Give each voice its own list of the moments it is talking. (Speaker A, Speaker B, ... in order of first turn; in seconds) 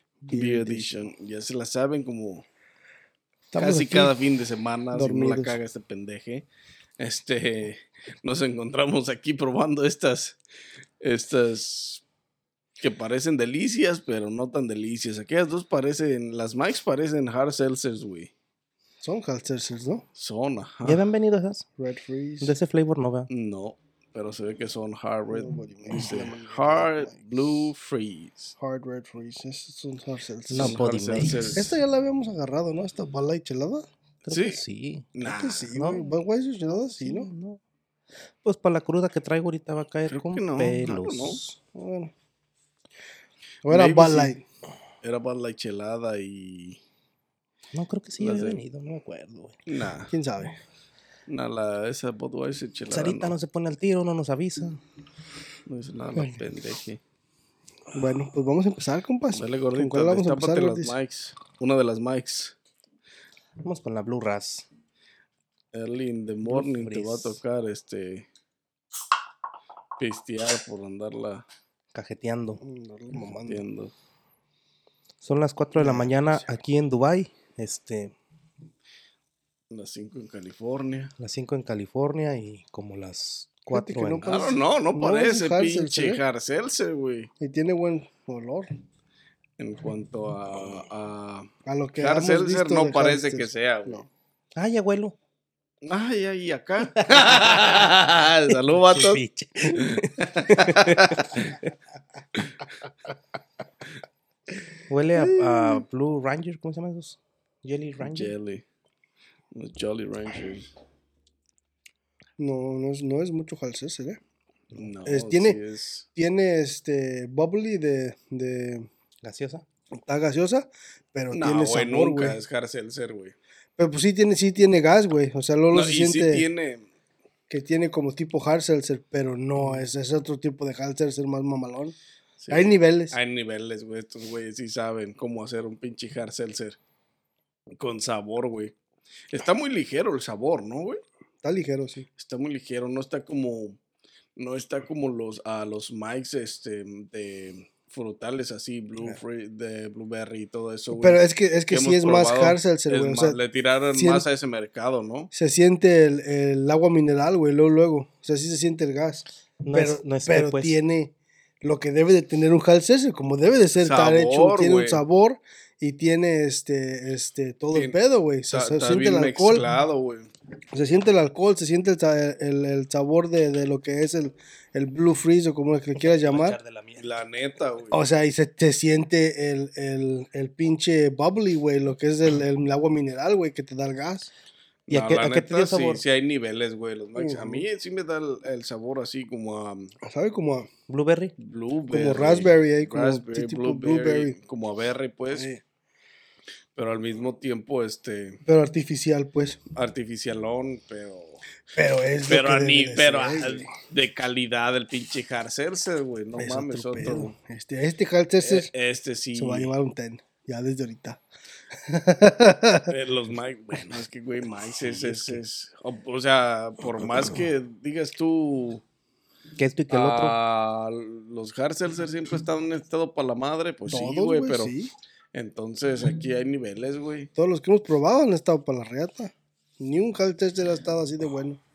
Speaker A: 0.2-0.9, 3.5-4.1, 4.9-5.6, 19.0-20.1, 21.8-22.6, 25.3-27.7, 28.6-30.9, 31.6-33.9, 35.2-37.3, 41.7-42.1, 43.6-44.4, 50.1-50.6, 57.9-61.0, 72.6-73.7, 75.8-76.6, 83.7-86.2, 87.4-88.7, 91.7-94.1, 105.2-105.8, 112.4-114.2, 115.0-115.6, 116.2-118.9, 119.9-122.4, 123.8-126.5, 127.5-131.9, 132.5-133.2, 141.4-142.1, 150.9-153.4, 153.9-154.3, 155.3-169.7, 170.7-176.6, 177.9-184.3, 187.2-187.7, 190.0-190.7, 191.9-194.4, 195.3-195.6, 198.5-199.6, 201.8-203.7, 206.4-208.7, 209.3-211.2, 211.8-212.9, 223.9-224.9, 227.4-231.6
Speaker B: 0.3-2.5, 3.6-6.5, 7.0-10.4, 11.0-12.0, 12.8-18.3, 20.2-21.0, 23.3-28.6, 30.5-31.8, 34.3-34.6, 35.1-35.7, 40.1-41.4, 43.7-44.3, 45.0-46.8, 48.2-48.6, 49.7-50.1, 51.3-53.4, 55.7-57.0, 59.3-62.5, 65.7-68.3, 70.0-71.5, 73.4-73.9, 79.7-81.1, 84.2-87.3, 89.6-94.0, 95.8-101.5, 108.0-108.7, 109.5-110.7, 114.7-116.1, 121.3-123.3, 125.7-126.9, 132.4-136.8, 137.8-138.8, 139.3-141.0, 142.2-143.8, 144.4-155.3, 163.8-165.0, 168.5-170.3, 177.0-178.0, 184.9-189.9, 191.4-195.5, 196.8-198.4, 199.8-201.4, 202.2-207.3, 208.4-209.7, 212.9-218.8, 219.9-224.8, 225.3-227.3
Speaker C: 20.9-21.7, 22.4-23.3, 30.5-31.6, 34.2-35.1, 35.8-36.1, 36.9-37.6, 38.4-41.6, 47.7-49.6, 52.9-54.8, 63.6-64.7, 66.5-67.4, 71.9-72.6, 75.2-78.1, 81.2-84.4, 94.6-95.2, 97.0-97.7, 98.5-101.7, 104.9-108.3, 119.2-119.6, 159.6-160.8, 176.0-177.0, 184.9-186.0, 190.9-191.3, 219.6-220.3